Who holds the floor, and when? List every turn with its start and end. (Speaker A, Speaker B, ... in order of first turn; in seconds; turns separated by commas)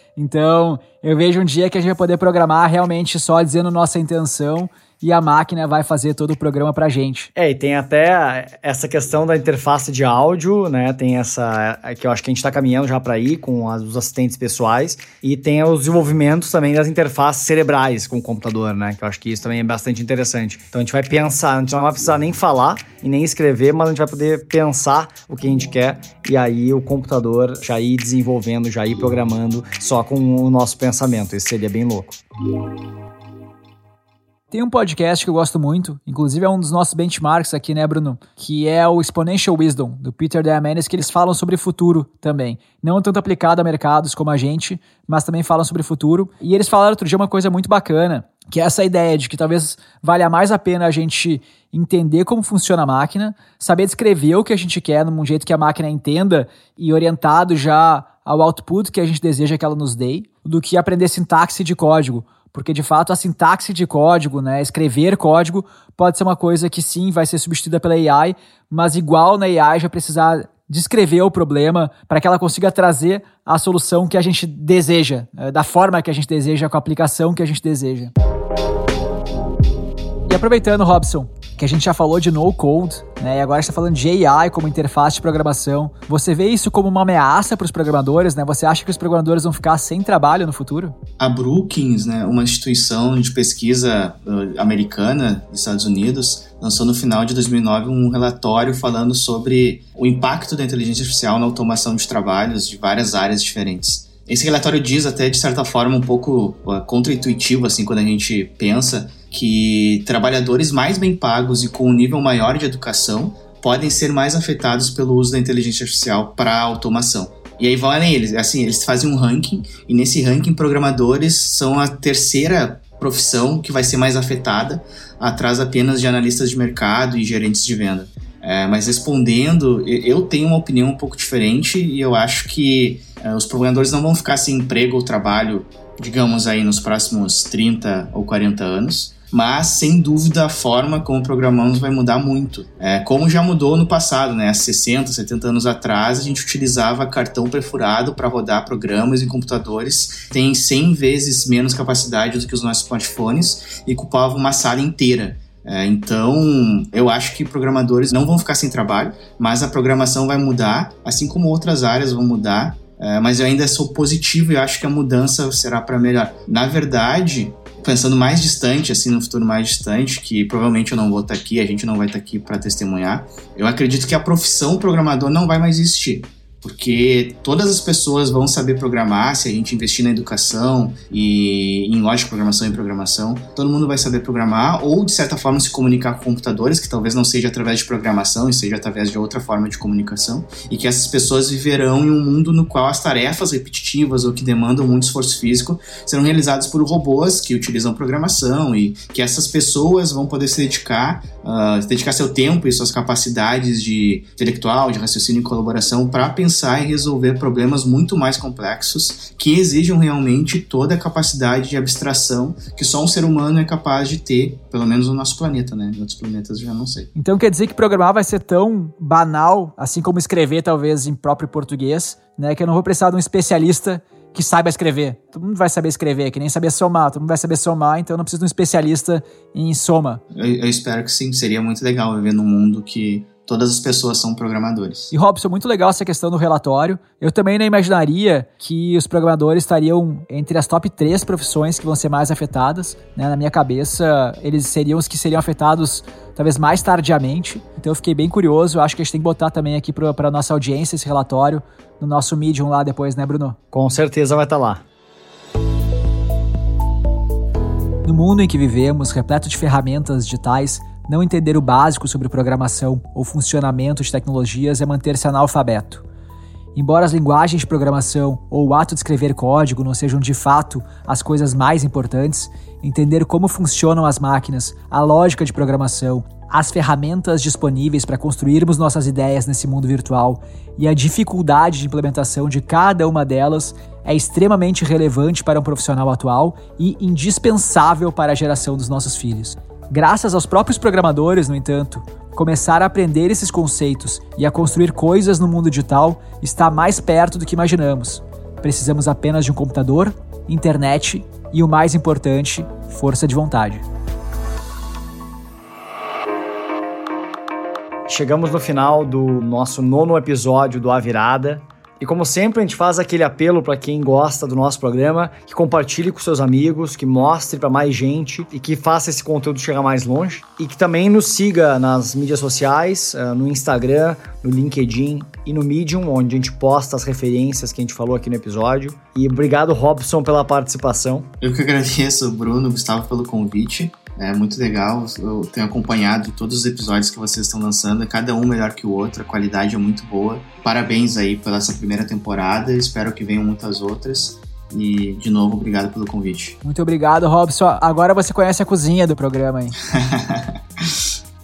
Speaker A: 0.1-7.3, Speaker B: 7.4-32.2, Speaker A: 34.5-78.1, Speaker A: 80.3-91.0, Speaker C: 91.2-217.1, Speaker A: 217.1-230.2, Speaker C: 230.3-235.1, Speaker A: 235.1-253.6, Speaker B: 253.7-254.8, Speaker A: 258.0-266.0, Speaker A: 266.7-303.8, Speaker B: 308.1-331.3, Speaker C: 331.4-346.6, Speaker A: 346.6-349.8, Speaker C: 349.9-350.9